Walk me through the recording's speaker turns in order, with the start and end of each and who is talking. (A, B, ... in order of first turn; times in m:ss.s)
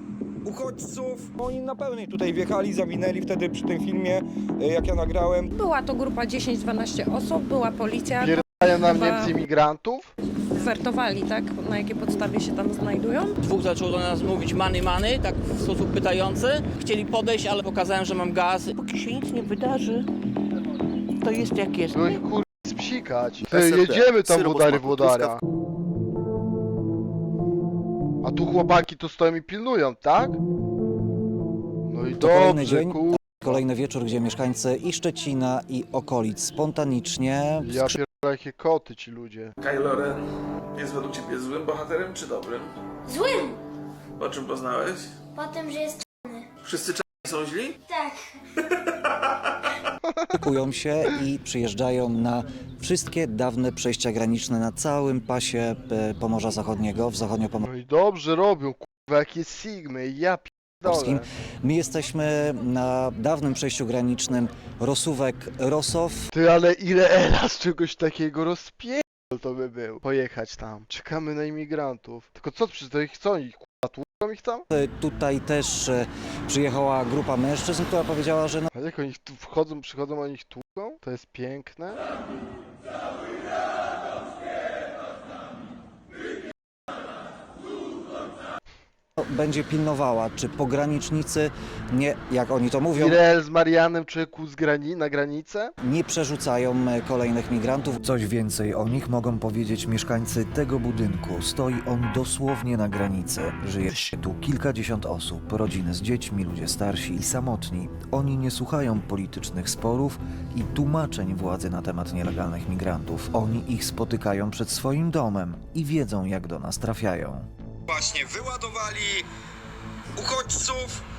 0:00.4-0:05.5 A
0:05.5-0:09.3 B
0:08.2-0:10.1 C
0:10.6-0:13.4 B
0:13.4-0:18.8 D
0:18.8-0:20.1 E
0:21.2-0:22.2 E
0:21.9-0:25.4 C
0:23.7-0:24.8 F
0:28.2-0:30.4 C
0:31.9-0:33.6 C
0:32.2-0:38.0 F
0:37.6-0:39.5 C
0:39.6-0:40.2 G
0:40.7-0:42.7 G
0:43.1-0:43.6 H
0:44.2-0:45.1 G
0:45.3-0:46.5 H
0:46.6-0:47.8 G
0:47.9-0:48.3 H
0:50.1-0:50.4 C
0:50.3-0:57.6 F
0:57.6-1:01.2 C
1:00.8-1:06.3 F
1:06.3-1:14.6 C
1:14.7-1:18.7 F
1:18.7-1:22.0 C
1:29.2-1:33.2 F
1:32.9-1:35.7 C
1:35.8-1:57.5 F
1:57.9-1:59.2 A
2:00.2-2:01.0 A